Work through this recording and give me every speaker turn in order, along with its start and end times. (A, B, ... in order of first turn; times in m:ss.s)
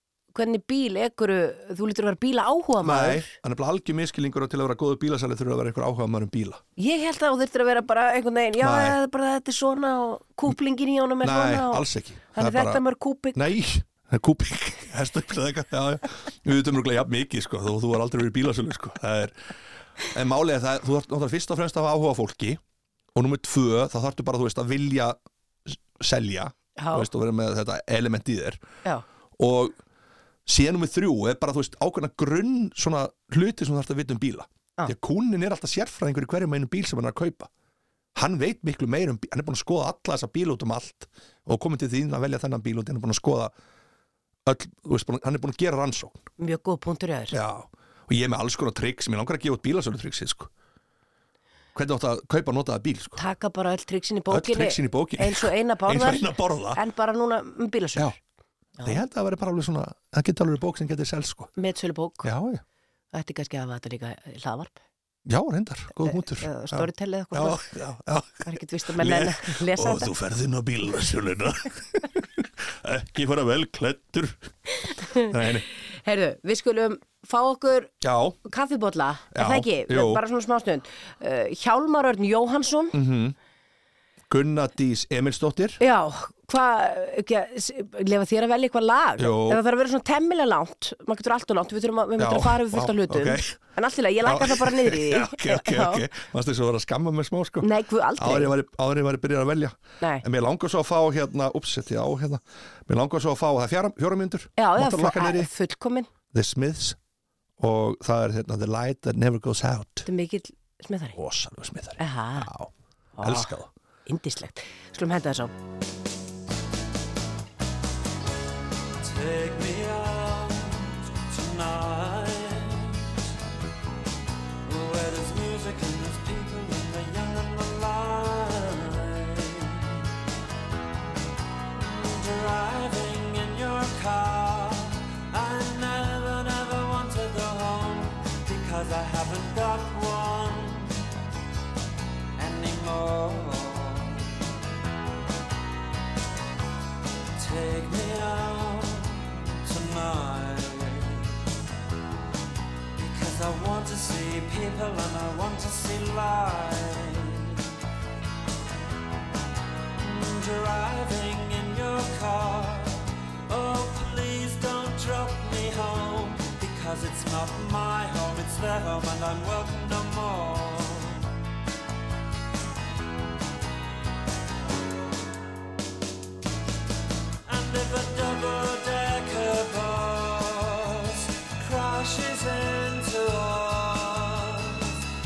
0:00.3-0:03.3 A
0:02.8-0:06.6 B
0:06.8-0:13.4 A
0:08.6-0:09.0 B
0:11.2-0:12.8 B
0:13.3-0:19.4 B
0:20.0-0:22.6 B
0:23.1-0:28.6 B
0:26.8-0:27.1 A
0:29.4-0:29.8 B
0:30.4-0:37.5 B
0:38.1-0:43.5 B
0:44.4-0:46.2 B
0:46.4-0:47.4 A
0:47.3-0:50.5 B
0:51.7-0:53.2 B
0:53.2-0:58.2 A
0:54.3-0:56.8 B
0:58.8-1:01.5 B
1:01.6-1:02.3 A
1:02.2-1:02.6 B
1:03.1-1:04.8 A
1:05.2-1:14.5 B
1:06.0-1:07.7 A
1:08.4-1:10.1 A
1:14.8-1:15.3 A
1:15.1-1:15.6 B
1:15.9-1:17.9 A
1:18.0-1:18.4 B
1:18.4-1:23.0 A
1:19.3-1:20.2 B
1:22.9-1:23.4 B
1:24.3-1:25.8 B
1:25.8-1:36.0 A
1:29.2-1:29.6 B
1:32.2-1:33.6 B
1:34.2-1:45.5 B
1:37.6-1:38.5 A
1:44.6-1:46.1 A
1:46.3-1:47.0 B
1:47.6-1:50.1 B
1:50.0-1:51.2 A
1:51.2-1:53.7 B
1:52.0-1:52.5 A
1:53.2-1:53.5 A
1:54.1-1:55.5 A
1:59.0-2:03.3 C
2:04.6-2:10.1 C
2:11.7-2:21.0 C
2:22.4-2:24.5 C
2:27.4-2:31.4 C
2:32.9-2:37.8 C
2:39.9-2:51.3 C
2:57.4-3:05.0 C